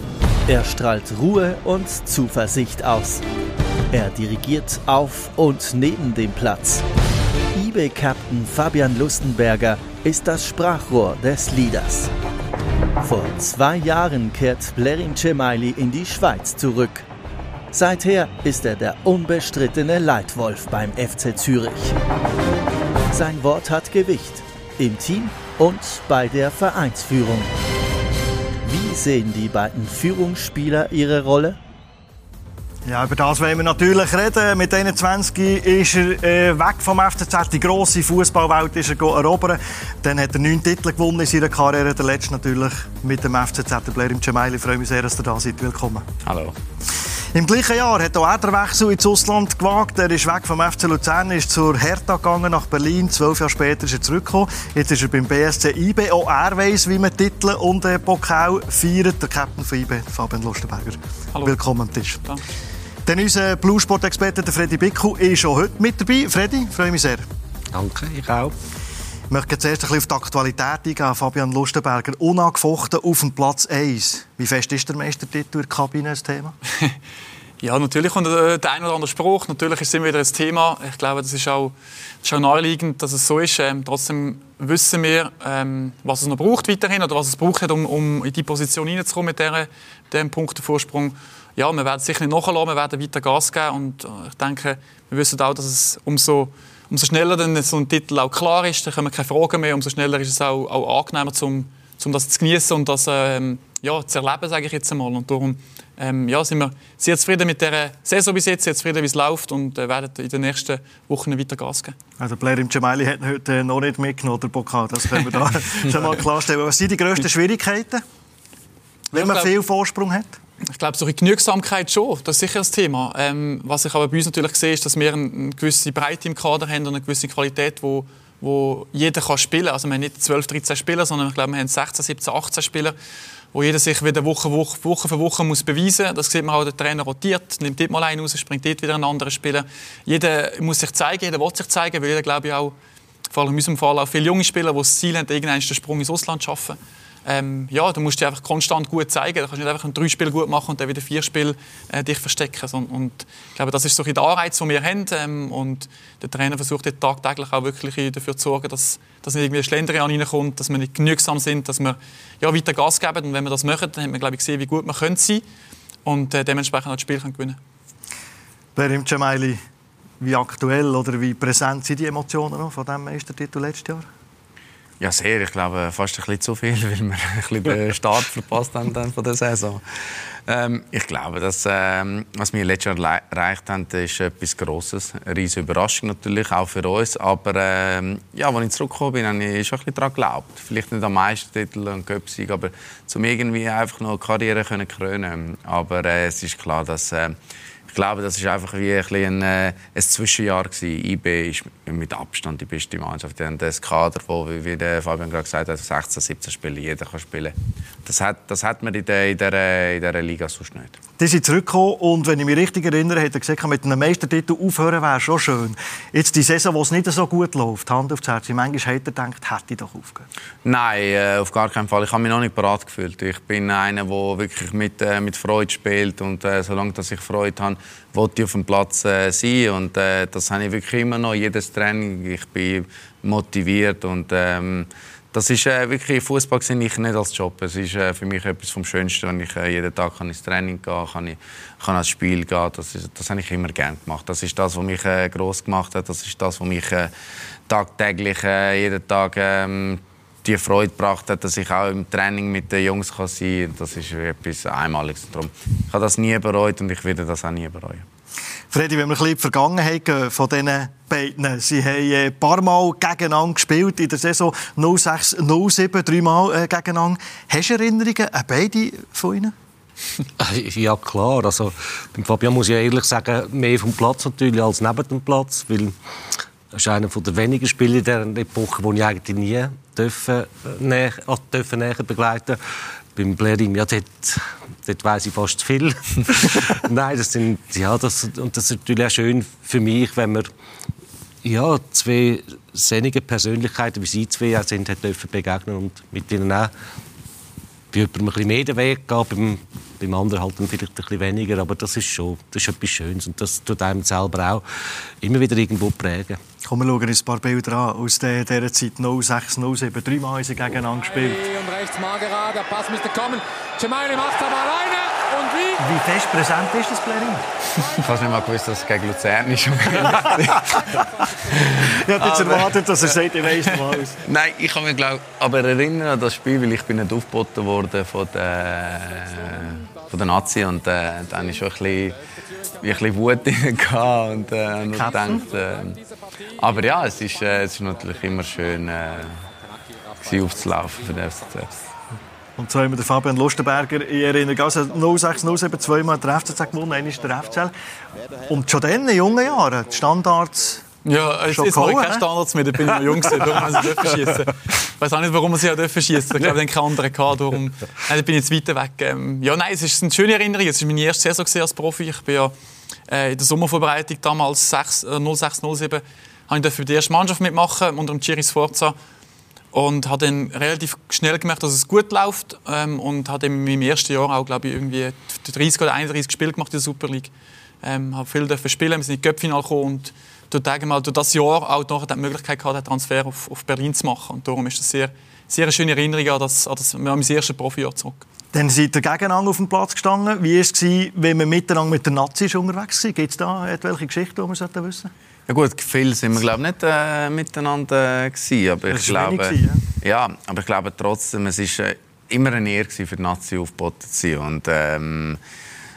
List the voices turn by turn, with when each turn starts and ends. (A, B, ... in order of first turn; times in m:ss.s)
0:00.5-0:03.2 A
0:03.9-0:06.8 A
0:07.5-0:12.1 A
0:13.0-0:17.1 A
0:17.7-0:22.0 A
0:23.1-0:27.5 A
0:28.6-0:31.6 A
0:32.8-0:46.1 B
0:46.2-0:46.6 C
0:47.3-1:02.2 B
1:03.0-1:07.2 B
1:07.7-1:08.5 D
1:09.3-1:16.6 B
1:17.6-1:51.9 E
1:52.2-1:58.0 B
1:59.1-1:59.5 E
1:59.1-2:00.4 B
2:00.7-2:13.0 E
2:13.5-2:22.7 E
2:23.3-2:45.4 E
2:46.0-2:47.6 E
2:48.8-2:49.6 B
2:50.2-2:54.1 B
2:55.0-3:17.3 C
3:17.9-3:31.0 C
3:31.2-3:40.3 B
3:40.6-4:07.1 C
4:07.7-4:18.0 C
4:18.7-4:29.5 B
4:30.4-4:35.9 D
4:36.7-4:42.6 D
4:43.1-4:50.5 D
4:51.4-4:56.7 D
4:57.9-5:04.6 D
5:05.2-5:06.4 D
5:06.6-5:11.4 B
5:11.0-5:15.8 F
5:15.8-5:17.5 B
5:17.8-5:18.1 F
5:18.0-5:22.8 C
5:20.0-5:21.5 F
5:20.3-5:21.0 B
5:21.8-5:24.2 B
5:24.2-5:32.2 C
5:29.3-5:30.1 F
5:32.3-5:33.0 F
5:32.8-5:36.0 C
5:34.9-5:35.5 B
5:35.0-5:37.6 F
5:36.6-5:39.4 C
5:39.4-5:41.7 F
5:40.2-5:41.7 C
5:42.6-5:47.7 B
5:48.5-5:50.8 B
5:51.0-6:02.5 E
5:51.4-5:52.3 B
6:03.1-6:09.0 E
6:09.7-6:17.3 E
6:17.8-6:28.2 E
6:28.5-6:35.1 B
6:35.5-6:45.4 C
6:38.9-6:39.8 B